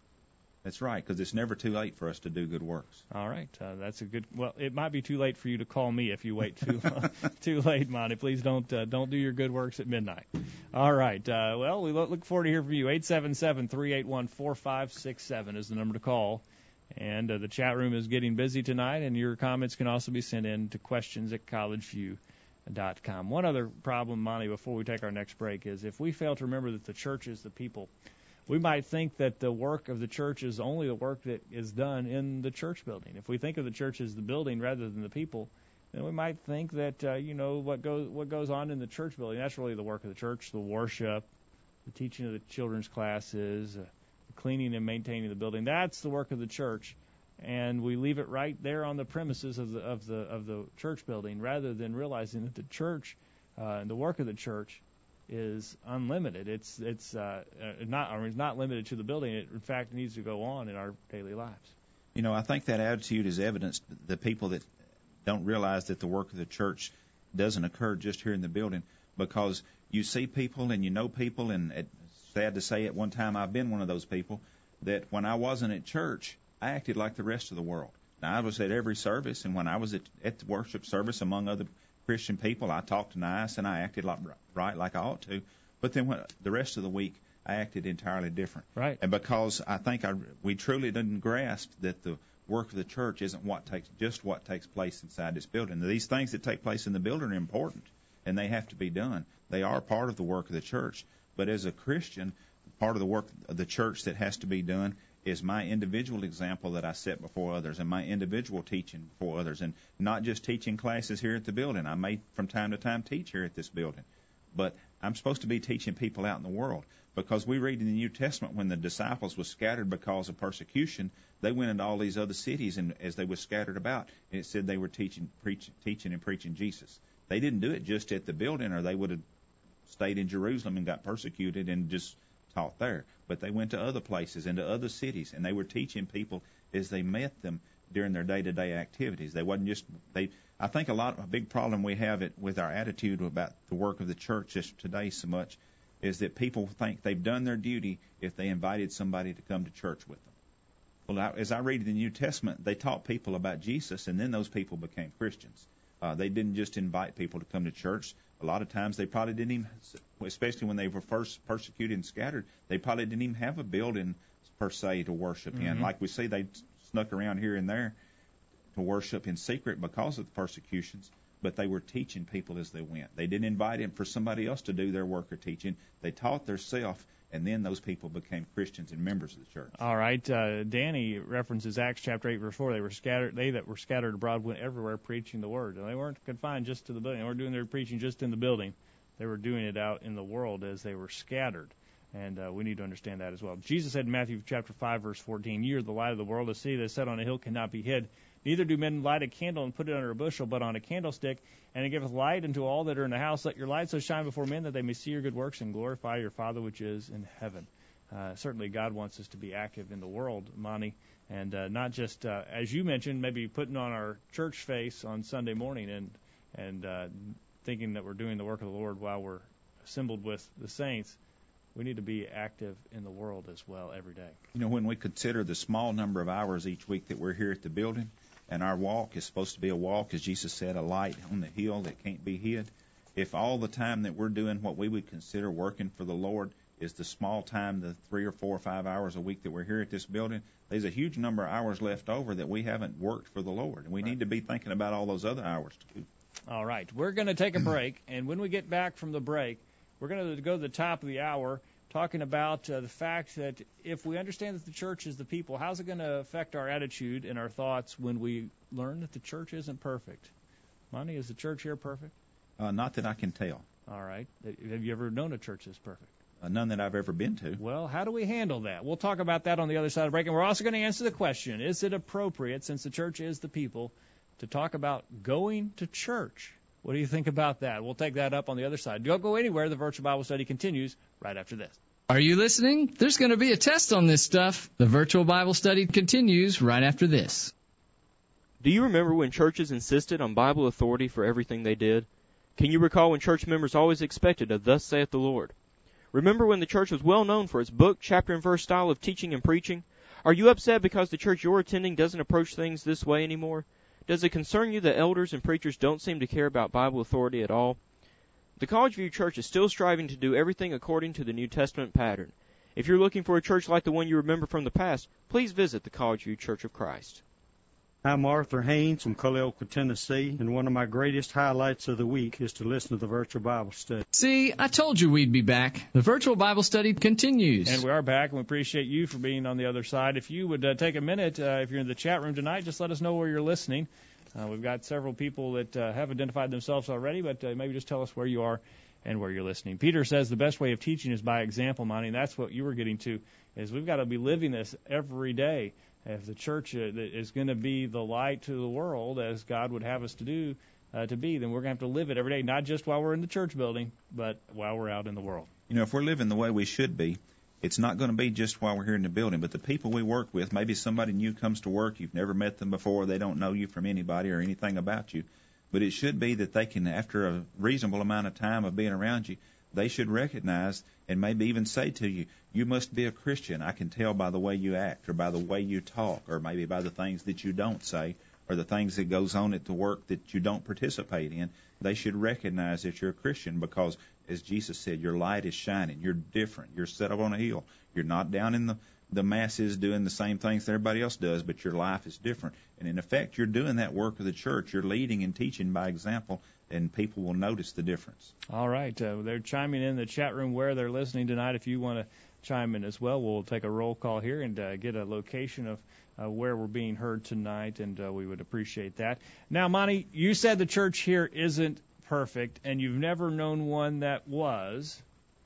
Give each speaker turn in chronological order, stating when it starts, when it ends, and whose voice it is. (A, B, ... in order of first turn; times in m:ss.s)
0:00.6-0:03.0 A
0:03.1-0:27.9 B
0:28.5-0:41.3 B
0:41.9-1:01.7 B
1:02.2-1:04.7 A
1:05.2-2:09.2 A
2:09.9-2:30.3 A
2:31.1-2:48.0 A
2:45.5-2:45.9 B
2:48.8-2:59.7 A
2:59.8-3:41.2 B
3:41.8-3:44.4 B
3:44.5-4:06.1 A
4:06.5-4:20.3 B
4:20.9-4:22.1 B
4:22.6-4:23.6 A
4:23.9-4:26.1 B
4:26.4-4:27.6 A
4:27.6-4:41.8 B
4:42.1-4:47.5 C
4:48.6-4:55.5 D
4:56.1-5:07.8 D
5:08.6-5:17.2 D
5:18.0-5:24.0 E
5:24.1-5:27.8 C
5:27.6-5:55.5 B
5:55.7-6:38.3 A
6:38.5-6:55.0 B